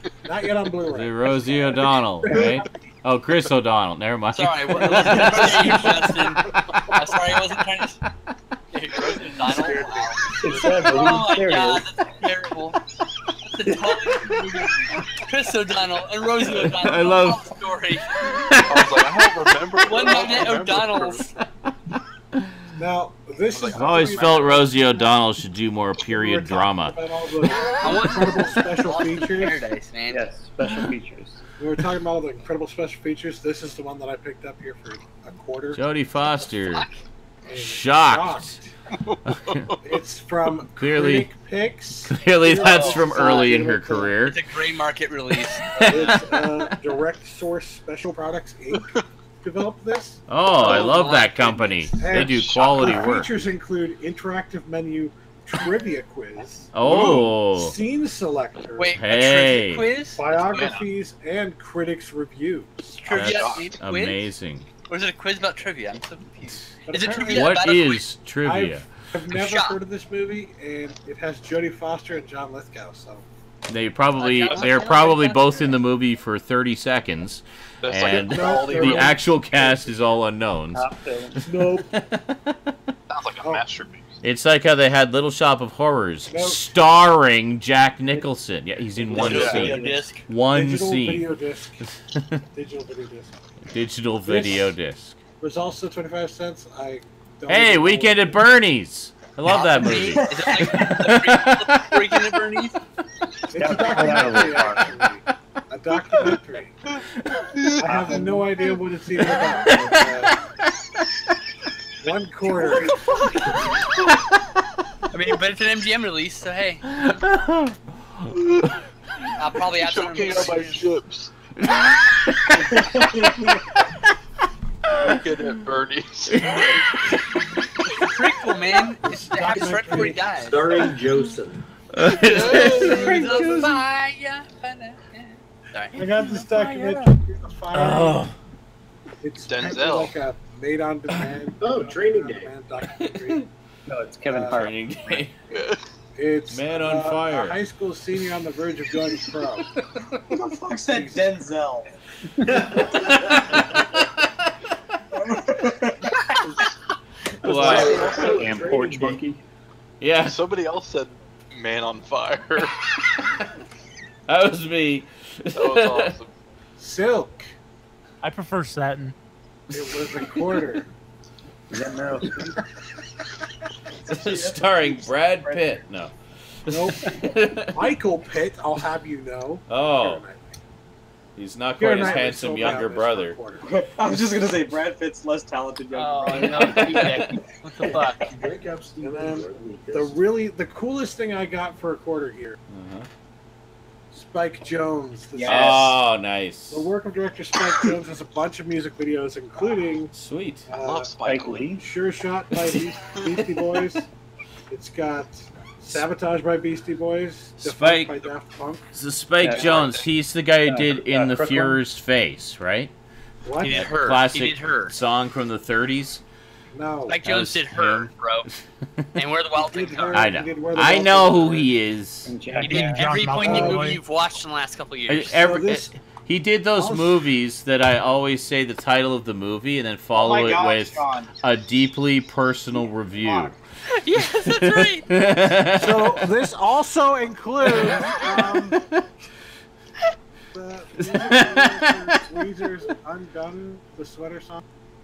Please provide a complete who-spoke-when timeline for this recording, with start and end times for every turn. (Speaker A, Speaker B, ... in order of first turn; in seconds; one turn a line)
Speaker A: 0.2-2.7
Speaker B: 0.8-6.9
Speaker C: 4.3-8.0
Speaker A: 4.9-6.3
Speaker C: 8.7-12.8
Speaker A: 9.1-10.6
Speaker D: 10.4-11.9
Speaker C: 13.4-18.2
Speaker B: 16.5-17.5
Speaker B: 18.2-19.2
Speaker E: 18.6-21.3
Speaker C: 19.8-21.3
Speaker A: 20.0-20.5
Speaker A: 22.8-24.7
Speaker E: 23.5-24.4
Speaker B: 23.7-27.0
Speaker A: 26.0-29.7
Speaker C: 27.8-30.2
Speaker D: 30.1-31.4
Speaker A: 31.6-35.8
Speaker B: 35.7-36.9
Speaker A: 37.4-38.7
Speaker B: 37.6-38.6
Speaker E: 39.0-39.9
Speaker A: 39.8-44.2
Speaker B: 40.8-41.3
Speaker B: 42.1-44.4
Speaker C: 44.2-46.2
Speaker B: 45.6-46.4
Speaker A: 45.8-48.9
Speaker E: 48.7-49.0
Speaker A: 49.4-59.0
Speaker B: 50.3-53.3
Speaker C: 50.6-51.4
Speaker E: 52.1-53.0
Speaker B: 56.7-57.8
Speaker C: 58.8-60.7
Speaker B: 59.0-59.9
Speaker A: 60.0-63.1
Speaker E: 60.3-60.9
Speaker C: 63.0-64.2
Speaker E: 63.1-63.7
Speaker B: 63.1-64.7
Speaker C: 64.9-68.0
Speaker A: 66.9-67.6
Speaker B: 67.3-68.9
Speaker A: 68.4-73.2
Speaker C: 69.3-69.8
Speaker B: 73.7-80.9
Speaker C: 74.2-75.7
Speaker A: 74.6-74.8
Speaker E: 77.8-79.2
Speaker A: 78.0-79.8
Speaker D: 80.7-81.4
Speaker B: 81.4-82.8
Speaker A: 81.4-81.9
Speaker E: 83.1-84.2
Speaker B: 84.2-91.3
Speaker A: 86.3-86.7
Speaker A: 89.0-91.9
Speaker C: 89.1-90.2
Speaker D: 89.3-89.8
Speaker B: 91.8-92.4
Speaker A: 92.5-93.3
Speaker B: 93.7-95.2
Speaker A: 94.2-94.7
Speaker A: 95.4-98.4
Speaker B: 97.5-102.2
Speaker C: 99.5-102.8
Speaker A: 103.5-106.8
Speaker D: 103.5-105.0
Speaker B: 106.1-106.4
Speaker E: 107.5-107.8
Speaker A: 107.8-110.4
Speaker D: 107.9-108.5
Speaker B: 109.3-110.4
Speaker A: 112.0-113.1
Speaker C: 112.5-113.6
Speaker C: 115.1-117.2
Speaker B: 116.9-118.3
Speaker C: 119.4-120.9
Speaker E: 119.8-121.3
Speaker B: 121.6-122.8
Speaker F: 122.9-123.3
Speaker B: 124.9-125.2
Speaker E: 124.9-127.2
Speaker B: 126.3-126.9
Speaker C: 128.0-130.6
Speaker A: 129.1-130.3
Speaker G: 130.4-131.6
Speaker B: 131.9-133.8
Speaker E: 132.2-133.1
Speaker C: 132.4-136.3
Speaker A: 132.9-133.5
Speaker A: 135.9-138.3
Speaker B: 136.3-137.1
Speaker B: 137.7-138.3
Speaker A: 139.2-143.4
Speaker E: 139.4-140.2
Speaker G: 141.6-142.5
Speaker B: 142.9-143.5
Speaker D: 143.9-145.3
Speaker A: 144.3-144.6
Speaker B: 144.6-145.3
Speaker E: 145.5-145.8
Speaker A: 146.2-149.7
Speaker B: 146.5-147.6
Speaker F: 150.3-151.9
Speaker A: 150.9-151.3
Speaker G: 152.5-153.6
Speaker B: 153.3-153.6
Speaker F: 155.3-156.2
Speaker B: 157.4-158.0
Speaker D: 157.4-159.4
Speaker A: 157.4-158.6
Speaker G: 157.5-159.2
Speaker F: 157.6-158.3
Speaker B: 160.0-160.4
Speaker E: 160.2-162.9
Speaker B: 164.3-166.1
Speaker E: 165.5-166.3
Speaker A: 166.8-167.5
Speaker H: 168.2-169.1
Speaker A: 169.7-170.9
Speaker B: 169.8-170.7
Speaker D: 171.7-172.6
Speaker F: 174.1-175.7
Speaker B: 174.1-177.9
Speaker A: 176.7-180.6
Speaker B: 179.7-180.2
Speaker B: 181.4-183.4
Speaker A: 181.8-183.7
Speaker F: 183.6-187.3
Speaker C: 185.9-188.3
Speaker A: 186.4-187.0
Speaker G: 187.8-190.1
Speaker A: 189.0-192.6
Speaker B: 192.7-193.1
Speaker A: 194.1-196.0
Speaker F: 195.3-195.9
Speaker B: 195.4-196.9
Speaker A: 196.7-200.1
Speaker B: 200.1-200.7
Speaker A: 200.7-201.1
Speaker E: 200.8-201.7
Speaker D: 201.2-201.8
Speaker A: 201.8-204.1
Speaker A: 204.7-208.9
Speaker B: 207.6-208.2
Speaker B: 208.9-212.9
Speaker D: 209.4-210.0
Speaker E: 209.6-210.1
Speaker D: 210.7-211.8
Speaker A: 213.4-213.9
Speaker C: 213.6-214.9
Speaker B: 213.7-216.2
Speaker A: 216.7-217.2
Speaker C: 217.1-218.5
Speaker B: 217.2-218.5
Speaker C: 219.2-220.3
Speaker A: 219.5-221.8
Speaker B: 220.1-222.3
Speaker D: 222.3-223.3
Speaker C: 222.6-225.7
Speaker H: 222.6-224.0
Speaker A: 223.4-223.9
Speaker B: 225.1-233.6
Speaker A: 225.4-225.9
Speaker A: 226.8-227.2
Speaker F: 230.2-231.2
Speaker A: 230.2-231.3
Speaker C: 234.0-235.1
Speaker B: 234.1-236.3
Speaker A: 235.7-238.9
Speaker B: 237.7-239.0
Speaker A: 240.5-244.6
Speaker B: 241.0-242.2